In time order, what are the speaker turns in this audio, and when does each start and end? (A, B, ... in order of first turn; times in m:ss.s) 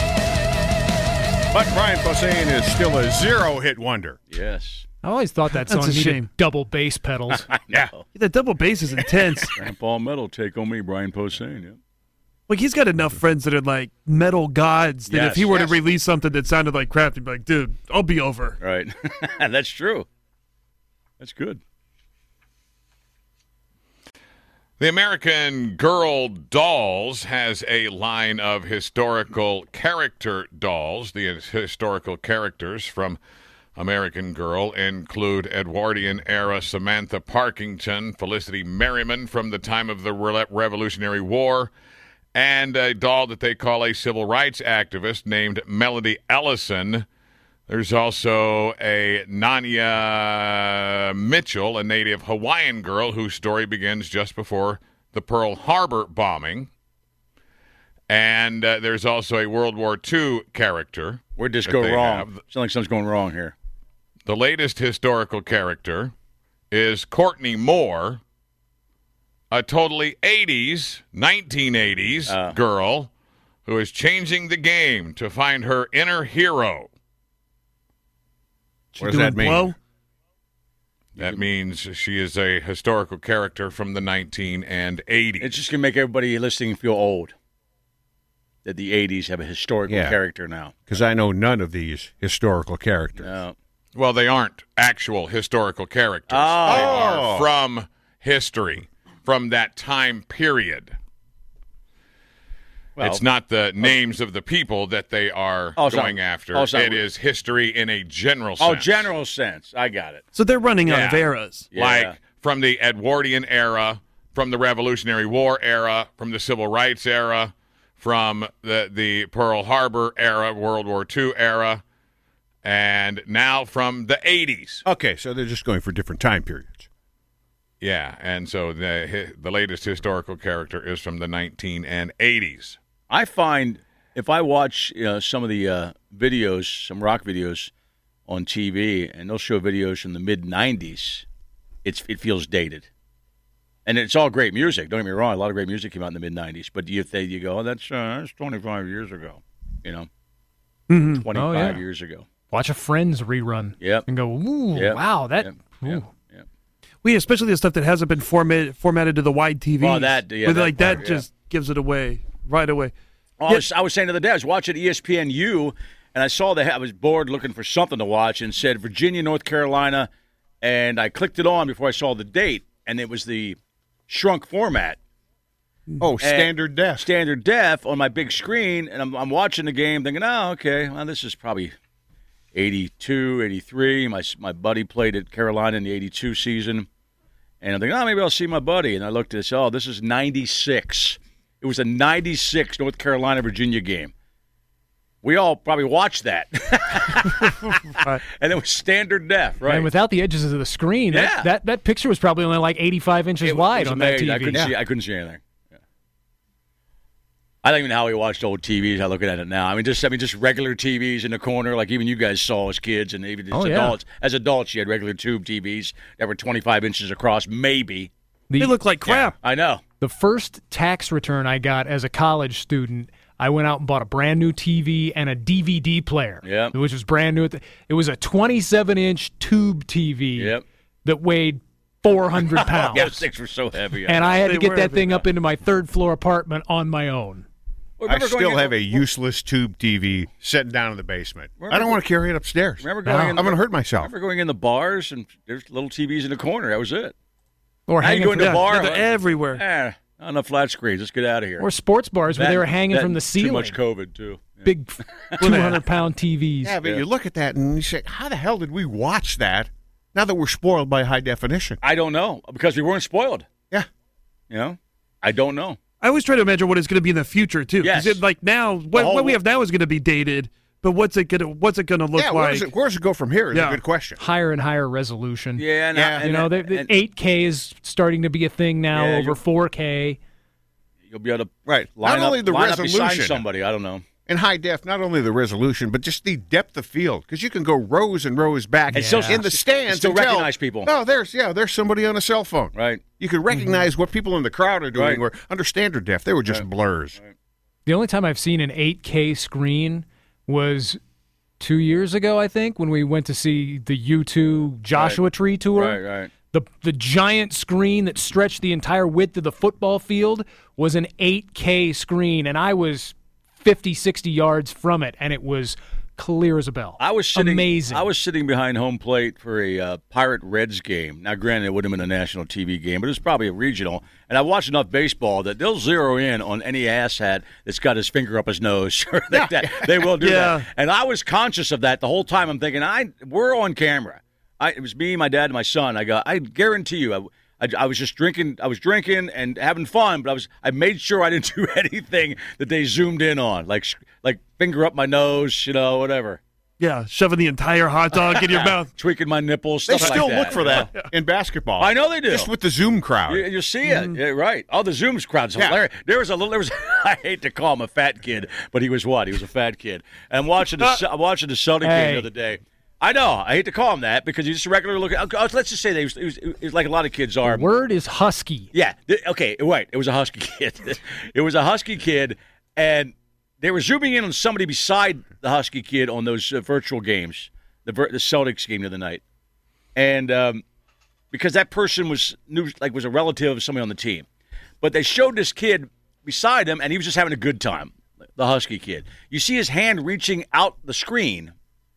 0:01.5-0:04.2 A
0:04.3-0:04.8 B
0:05.0-0:07.5 C
0:05.6-0:06.2 D
0:07.4-0:08.0 B
0:08.1-0:09.6 D
0:09.4-0:11.8 B
0:12.5-0:18.6 D
0:15.1-0:15.8 B
0:18.6-0:20.1 B
0:21.2-0:21.6 B
0:24.8-0:33.2 E
0:33.8-0:41.7 E
0:42.3-0:47.0 E
0:47.7-0:56.7 E
0:58.1-1:02.4 E
1:01.4-1:03.5 B
1:04.2-1:06.1 E
1:06.7-1:08.2 E
1:09.5-1:13.1 E
1:12.3-1:12.6 B
1:13.6-1:16.9 E
1:19.0-1:19.8 D
1:19.0-1:19.8 A
1:21.2-1:25.5 E
1:21.2-1:21.4 B
1:25.4-1:27.3 B
1:28.6-1:30.9 B
1:29.9-1:30.2 A
1:30.9-1:33.3 A
1:33.2-1:33.5 B
1:33.9-1:41.0 E
1:36.3-1:37.2 B
1:36.6-1:37.5 A
1:43.0-1:43.2 B
1:43.0-1:49.1 E
1:45.8-1:47.0 B
1:48.6-1:50.2 B
1:50.3-1:51.7 D
1:50.8-2:01.8 E
1:51.7-1:52.2 B
2:02.6-2:04.8 E
2:04.8-2:06.9 A
2:07.8-2:12.8 E
2:13.1-2:17.7 B
2:18.3-2:21.2 B
2:21.8-2:22.9 B
2:23.8-2:30.1 B
2:30.9-2:31.2 D
2:31.1-2:32.2 B
2:31.3-2:31.8 C
2:32.5-2:36.1 C
2:33.8-2:34.1 B
2:34.7-2:36.4 B
2:37.0-2:42.9 D
2:39.8-2:41.2 B
2:43.4-2:50.1 B
2:50.6-2:53.6 B
2:54.1-2:55.0 B
2:56.0-2:57.1 A
2:56.2-3:01.7 B
3:02.5-3:06.9 B
3:07.6-3:14.1 B
3:15.2-3:19.9 B
3:19.6-3:24.7 C
3:21.1-3:21.5 B
3:23.4-3:25.4 B
3:27.6-3:38.1 B
3:33.5-3:34.0 C
3:38.5-3:38.8 C
3:38.6-3:39.4 D
3:39.0-3:39.3 A
3:39.4-3:39.8 B
3:40.0-3:53.1 C
3:46.4-3:46.7 B
3:50.4-3:50.6 B
3:52.5-3:54.4 B
3:52.9-3:53.2 A
3:54.0-3:57.4 C
3:54.4-3:55.2 D
3:58.0-3:59.0 B
3:58.0-4:04.1 A
4:01.6-4:02.0 B
4:02.8-4:07.1 B
4:03.0-4:03.4 C
4:07.9-4:08.6 C
4:08.0-4:11.6 B
4:08.4-4:09.6 D
4:11.6-4:13.8 C
4:12.3-4:15.6 B
4:14.6-4:16.8 C
4:15.4-4:15.8 D
4:16.6-4:21.8 A
4:21.8-4:23.4 B
4:24.5-4:25.8 B
4:26.0-4:32.7 D
4:27.8-4:28.2 B
4:28.9-4:29.4 B
4:32.2-4:34.2 A
4:33.5-4:33.8 D
4:34.2-4:35.6 C
4:35.6-4:36.9 B
4:35.9-4:36.2 A
4:36.2-4:40.2 C
4:38.9-4:39.4 B
4:41.1-4:44.0 B
4:41.7-4:43.4 A
4:44.2-4:57.2 A
4:48.9-4:49.4 C
4:48.9-4:50.9 B
4:52.7-4:53.0 B
4:54.9-4:55.2 B
4:57.8-5:01.0 C
5:01.6-5:06.0 C
5:04.9-5:05.2 B
5:05.7-5:06.3 B
5:06.5-5:18.1 C
5:17.0-5:46.4 B
5:29.3-5:30.1 A
5:30.2-5:30.6 D
5:46.8-5:48.9 D
5:48.1-5:50.9 B
5:49.9-5:53.5 A
5:50.0-5:51.1 D
5:51.8-5:52.5 B
5:53.3-6:07.7 B
5:53.8-5:54.2 D
6:01.8-6:02.3 C
6:07.4-6:08.7 C
6:08.7-6:19.2 B
6:20.0-6:20.6 B
6:21.3-6:24.2 B
6:24.8-6:31.5 B